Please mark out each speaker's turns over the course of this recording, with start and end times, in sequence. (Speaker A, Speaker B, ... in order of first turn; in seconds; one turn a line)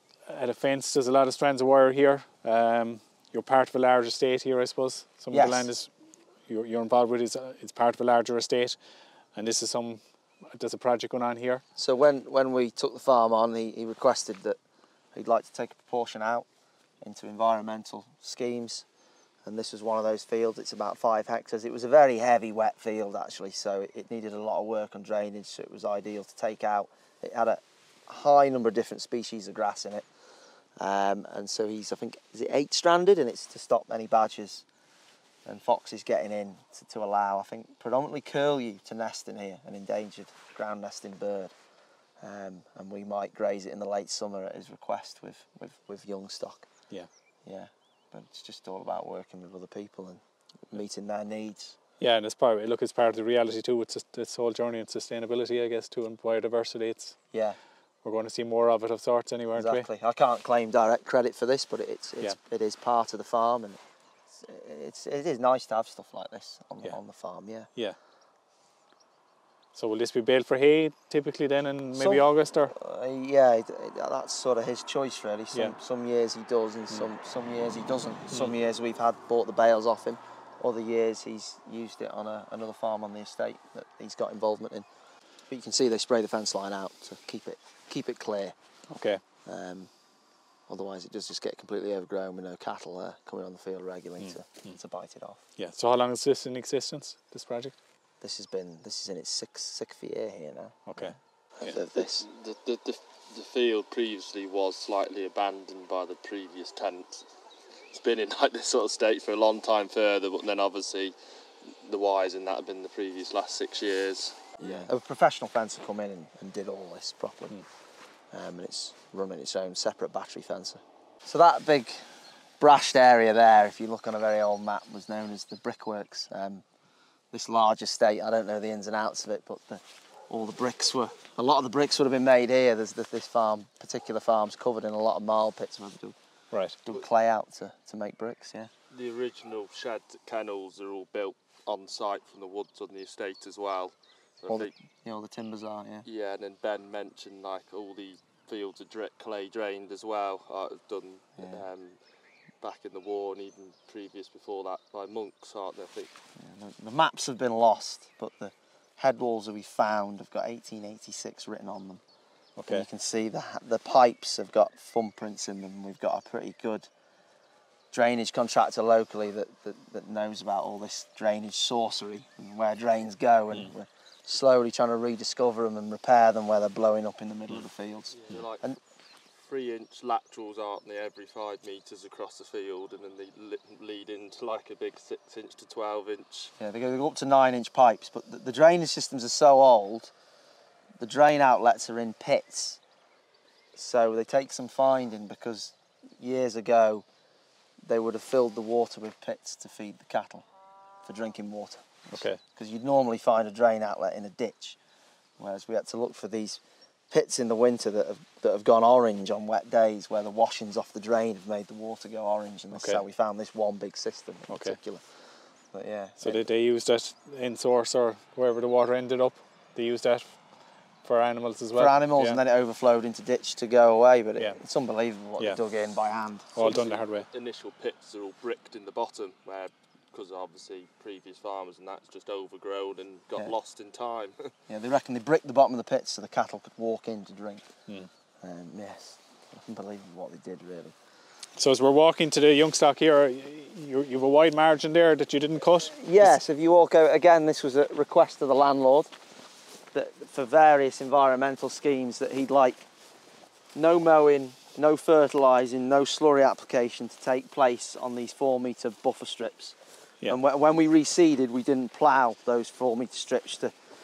Speaker A: 0.3-5.9
Speaker B: 5.3-5.7
Speaker A: 6.5-8.8
Speaker A: 9.3-10.0
Speaker A: 10.5-11.6
Speaker B: 11.8-14.6
Speaker B: 15.1-16.5
Speaker B: 17.0-18.9
Speaker B: 19.4-30.1
Speaker B: 30.8-34.6
Speaker B: 35.5-41.5
Speaker B: 42.2-46.7
Speaker B: 47.5-51.8
Speaker A: 52.0-57.2
Speaker B: 57.3-57.6
Speaker A: 58.0-59.9
Speaker B: 59.5-63.8
Speaker B: 64.4-67.7
Speaker A: 69.7-72.8
Speaker B: 72.0-84.9
Speaker B: 85.5-88.5
Speaker A: 88.9-89.2
Speaker B: 89.5-89.9
Speaker B: 90.7-95.4
Speaker A: 94.2-94.8
Speaker A: 95.6-97.8
Speaker B: 98.2-102.3
Speaker A: 100.9-101.8
Speaker C: 101.9-107.3
Speaker C: 107.9-111.2
Speaker C: 111.8-114.5
Speaker B: 114.6-117.6
Speaker B: 118.3-122.0
Speaker B: 122.6-126.6
Speaker B: 127.3-136.2
Speaker A: 136.5-136.8
Speaker B: 136.8-138.7
Speaker C: 138.9-144.7
Speaker B: 144.5-146.1
Speaker C: 146.1-152.0
Speaker B: 151.4-151.6
Speaker C: 152.6-156.1
Speaker B: 156.4-162.0
Speaker A: 162.6-162.9
Speaker B: 162.7-166.9
Speaker B: 167.9-178.8
Speaker C: 178.2-178.7
Speaker C: 179.4-186.5
Speaker B: 186.6-190.1
Speaker B: 191.0-192.8
Speaker B: 193.8-197.1
Speaker B: 197.9-200.4
Speaker B: 201.1-204.8
Speaker A: 202.1-202.4
Speaker B: 205.4-215.0
Speaker A: 212.7-213.0
Speaker A: 214.5-214.8
Speaker B: 215.7-216.5
Speaker A: 216.2-220.4
Speaker A: 221.0-222.4
Speaker B: 221.8-226.7
Speaker A: 226.6-227.3
Speaker C: 226.6-234.5
Speaker B: 234.7-237.7
Speaker B: 238.4-240.9
Speaker A: 241.6-246.3
Speaker B: 245.8-249.1
Speaker B: 249.9-252.8
Speaker B: 253.8-263.7